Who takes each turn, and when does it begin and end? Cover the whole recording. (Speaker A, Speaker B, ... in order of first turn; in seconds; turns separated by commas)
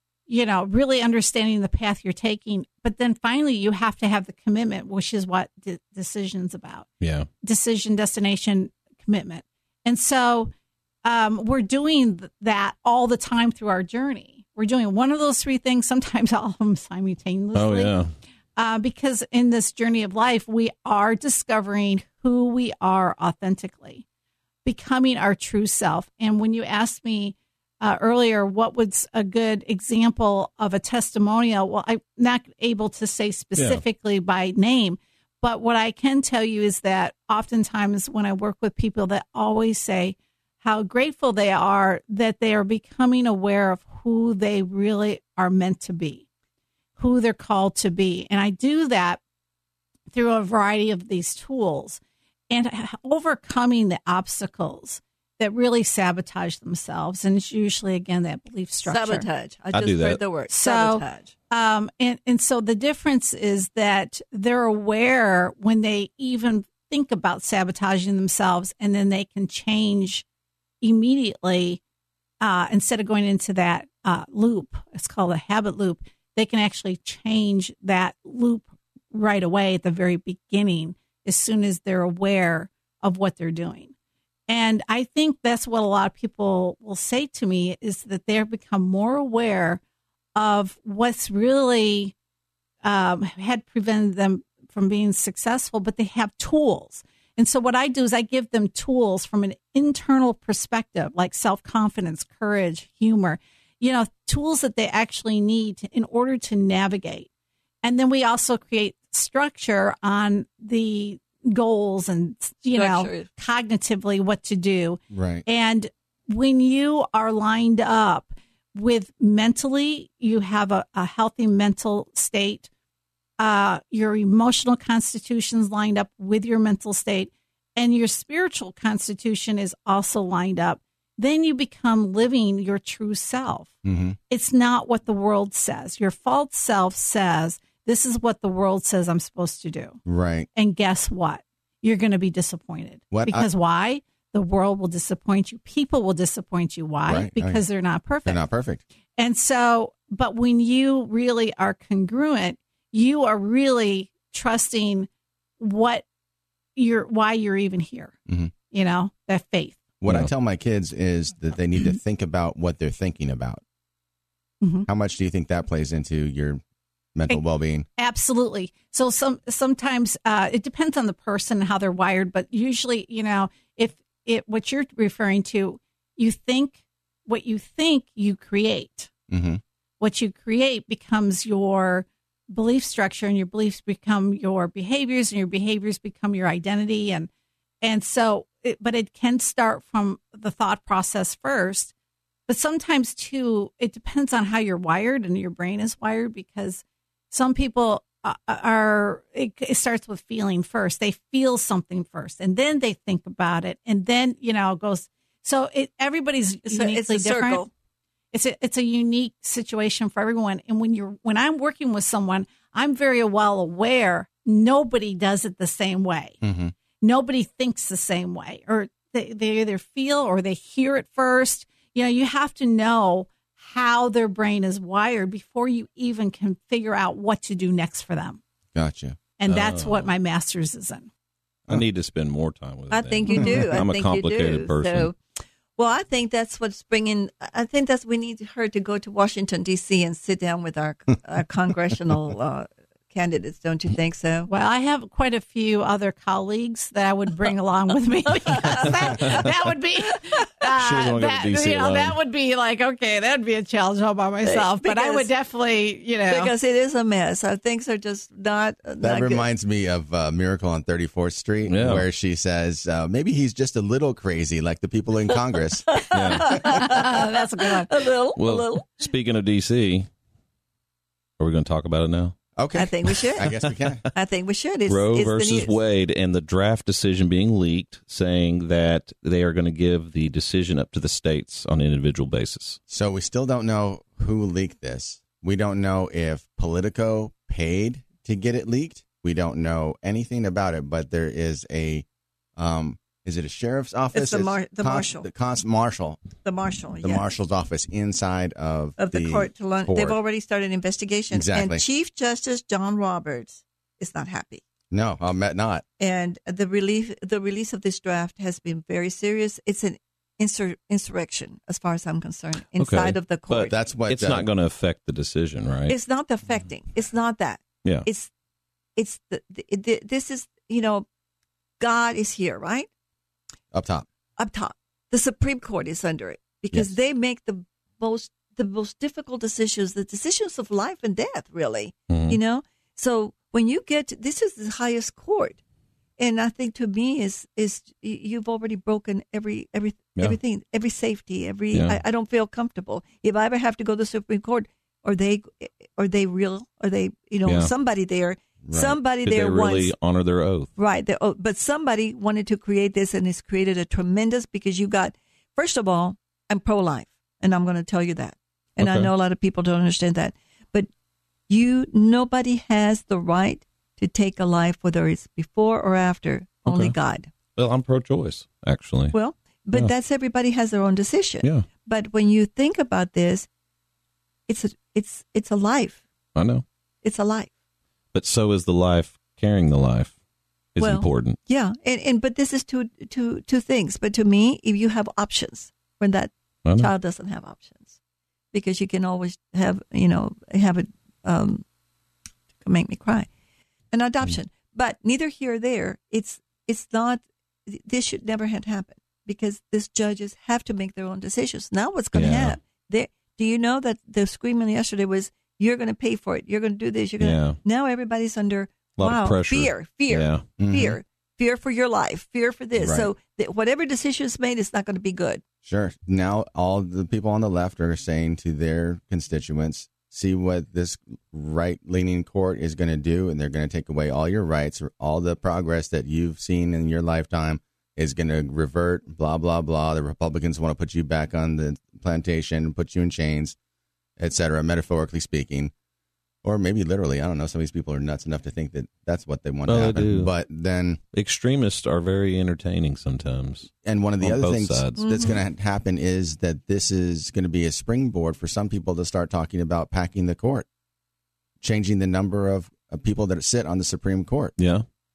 Speaker A: 0.3-6.9, Speaker B: 7.0-7.3, Speaker A: 7.4-10.5, Speaker A: 11.0-17.9, Speaker B: 17.5-18.1, Speaker A: 18.6-24.0, Speaker A: 24.6-46.2, Speaker A: 47.0-49.2, Speaker A: 50.1-59.3, Speaker C: 58.9-61.3, Speaker B: 59.7-60.2, Speaker A: 60.5-70.2, Speaker A: 70.8-71.8, Speaker A: 72.4-83.9, Speaker A: 84.5-89.8, Speaker A: 90.3-92.1, Speaker A: 92.8-107.3, Speaker A: 107.8-122.7, Speaker C: 112.8-113.3, Speaker D: 115.1-115.5, Speaker A: 123.4-133.7, Speaker D: 133.8-134.2, Speaker A: 134.3-140.0, Speaker D: 140.1-140.5, Speaker A: 140.6-148.4, Speaker D: 143.1-143.5, Speaker D: 147.1-147.6, Speaker D: 148.2-148.8, Speaker A: 149.2-155.1, Speaker A: 155.6-156.1, Speaker A: 156.8-158.1, Speaker A: 158.7-159.8, Speaker D: 160.0-163.6, Speaker A: 164.6-164.9, Speaker D: 164.9-166.6, Speaker D: 167.2-167.9, Speaker A: 168.0-179.1, Speaker D: 179.3-179.6, Speaker A: 180.0-187.3, Speaker A: 187.8-191.9, Speaker A: 192.5-207.7, Speaker C: 206.7-207.7, Speaker A: 208.3-216.4, Speaker D: 216.4-216.7, Speaker A: 217.0-228.4, Speaker D: 228.8-229.2, Speaker A: 229.4-231.1, Speaker B: 229.5-230.1, Speaker B: 231.7-235.1, Speaker C: 232.9-235.2, Speaker A: 233.3-233.6, Speaker C: 235.8-244.5, Speaker A: 244.5-256.5, Speaker C: 248.5-249.4, Speaker B: 248.7-249.5, Speaker B: 250.7-252.2, Speaker C: 254.4-255.3, Speaker C: 256.3-259.5, Speaker D: 259.0-266.1, Speaker B: 261.7-262.1, Speaker C: 265.9-268.9, Speaker B: 266.1-266.6, Speaker A: 266.4-267.9, Speaker B: 268.4-270.1, Speaker B: 271.4-272.4, Speaker D: 272.6-274.0, Speaker C: 272.8-273.5, Speaker C: 274.1-275.8, Speaker B: 274.9-282.8, Speaker D: 282.9-292.1, Speaker D: 292.6-296.3, Speaker C: 294.1-295.3, Speaker C: 296.4-297.3, Speaker D: 297.0-300.2, Speaker C: 299.0-304.6, Speaker D: 301.3-301.8, Speaker D: 304.9-305.8, Speaker C: 306.0-313.7, Speaker B: 312.8-315.9, Speaker D: 313.7-314.5, Speaker C: 315.9-318.3, Speaker C: 319.0-321.1, Speaker C: 321.8-322.9, Speaker D: 323.7-324.1, Speaker C: 324.4-335.6, Speaker B: 332.1-332.4, Speaker C: 336.2-349.9, Speaker B: 341.7-342.0, Speaker D: 348.6-349.0, Speaker B: 349.2-350.7, Speaker C: 350.8-360.9, Speaker B: 358.8-359.1, Speaker C: 361.5-367.3, Speaker B: 366.7-366.9, Speaker B: 367.6-369.1, Speaker C: 369.1-373.5, Speaker C: 374.5-376.0, Speaker B: 376.4-376.6, Speaker C: 377.0-377.5, Speaker B: 378.1-380.1, Speaker B: 380.8-381.4, Speaker C: 380.8-387.9, Speaker B: 386.6-386.9, Speaker C: 388.5-391.6, Speaker C: 392.6-393.3, Speaker C: 393.9-415.4, Speaker B: 402.1-402.6, Speaker B: 407.2-407.6, Speaker B: 409.0-410.4, Speaker D: 410.6-411.0, Speaker D: 412.8-413.1, Speaker D: 415.6-433.6, Speaker D: 434.2-435.7, Speaker D: 436.4-441.0, Speaker B: 439.7-440.3, Speaker B: 441.1-443.7, Speaker D: 443.8-450.7, Speaker B: 444.2-445.2, Speaker C: 445.0-445.4, Speaker D: 451.6-454.6, Speaker B: 454.6-454.9